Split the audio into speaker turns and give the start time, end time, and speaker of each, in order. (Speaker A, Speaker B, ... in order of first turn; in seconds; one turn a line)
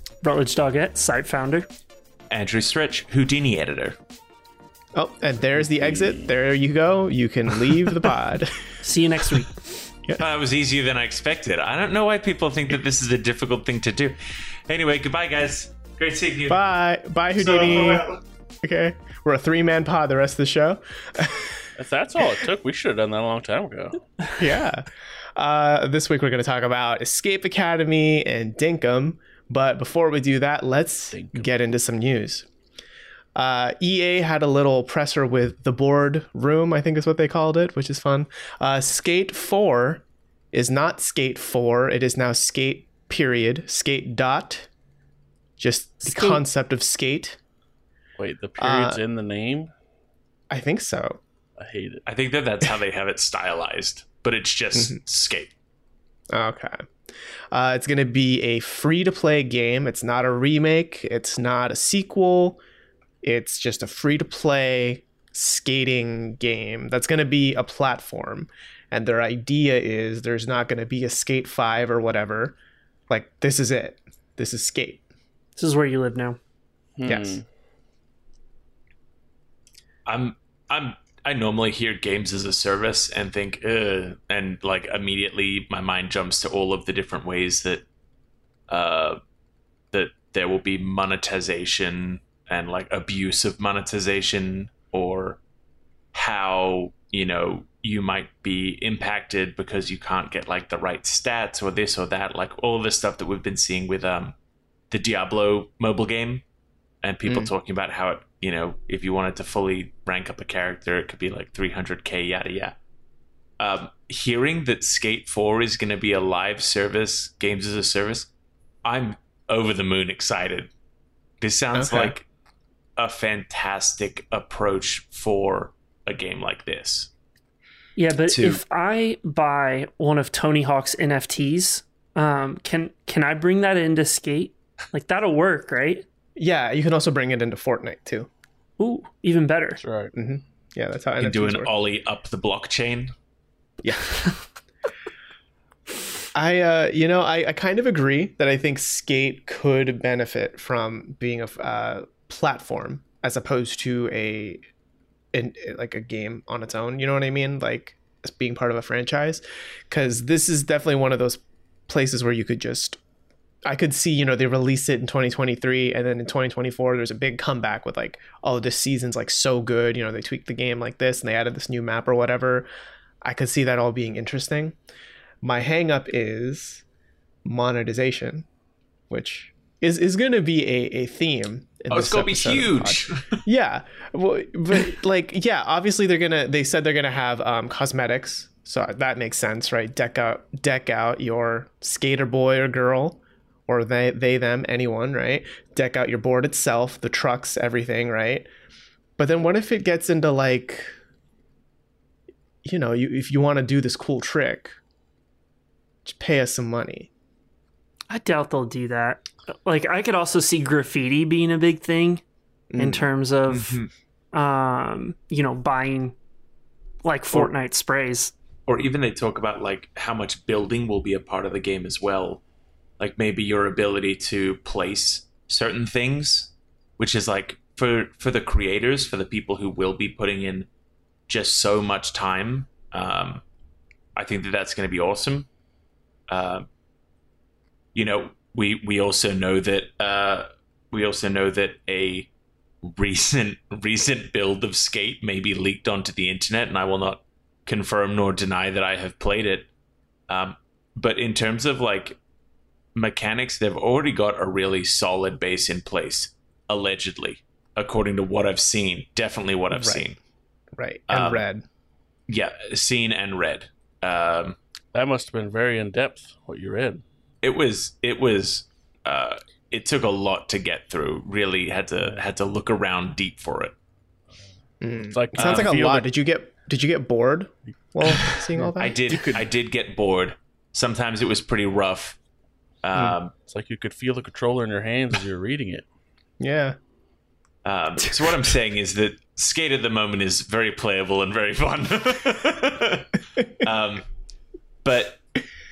Speaker A: 0.2-1.7
Speaker B: 2.3-4.0
Speaker C: 5.0-8.7
Speaker D: 5.7-6.3
Speaker A: 8.8-9.6
Speaker B: 10.2-16.6
Speaker C: 16.5-18.1
Speaker B: 17.4-18.2
Speaker C: 18.6-22.2
Speaker D: 21.8-24.1
Speaker C: 24.4-32.5
Speaker D: 31.1-31.5
Speaker C: 33.4-44.7
Speaker C: 45.6-47.4
Speaker A: 46.0-46.4
Speaker D: 48.2-49.7
Speaker C: 48.6-49.0
Speaker C: 50.5-51.2
Speaker D: 51.6-52.0
Speaker B: 52.1-55.5
Speaker C: 54.7-55.0
Speaker C: 56.3-56.8
Speaker C: 57.5-62.6
Speaker C: 63.2-72.6
Speaker C: 73.1-75.0
Speaker A: 75.6-76.4
Speaker D: 77.0-77.5
Speaker C: 77.0-77.4
Speaker B: 80.1-87.8
Speaker B: 88.7-89.2
Speaker B: 89.9-95.4
Speaker B: 96.1-104.4
Speaker B: 104.9-106.4
Speaker B: 107.0-112.8
Speaker B: 113.6-118.3
Speaker B: 118.8-120.7
Speaker B: 121.4-122.2
Speaker C: 121.8-122.1
Speaker B: 123.0-127.1
Speaker A: 128.0-136.1
Speaker B: 128.3-128.6
Speaker C: 136.4-138.3
Speaker A: 138.8-139.8
Speaker D: 139.8-140.1
Speaker C: 140.1-141.7
Speaker B: 141.2-143.1
Speaker C: 143.8-144.2
Speaker C: 146.3-154.6
Speaker C: 155.3-163.0
Speaker C: 163.7-172.7
Speaker C: 173.2-174.8
Speaker C: 175.4-176.8
Speaker C: 177.4-178.5
Speaker C: 179.1-198.5
Speaker B: 181.9-183.4
Speaker C: 199.2-200.9
Speaker C: 202.6-204.8
Speaker C: 206.1-207.1
Speaker A: 208.1-212.2
Speaker C: 212.7-213.1
Speaker A: 212.8-213.8
Speaker A: 214.3-216.1
Speaker A: 217.0-218.3
Speaker B: 218.7-222.4
Speaker B: 223.0-230.7
Speaker B: 231.3-233.4
Speaker B: 234.2-235.5
Speaker B: 236.3-236.7
Speaker B: 237.9-242.3
Speaker B: 242.8-249.7
Speaker B: 250.3-252.2
Speaker B: 252.9-260.2
Speaker C: 259.7-260.1
Speaker C: 260.8-261.6
Speaker B: 261.1-261.4
Speaker B: 262.3-264.6
Speaker D: 264.9-267.0
Speaker B: 267.4-273.7
Speaker C: 274.8-279.0
Speaker D: 275.0-276.1
Speaker B: 275.4-275.7
Speaker B: 278.1-282.2
Speaker D: 278.2-279.4
Speaker B: 282.8-283.3
Speaker D: 283.5-285.9
Speaker C: 286.4-286.8
Speaker B: 287.6-294.1
Speaker B: 294.8-295.2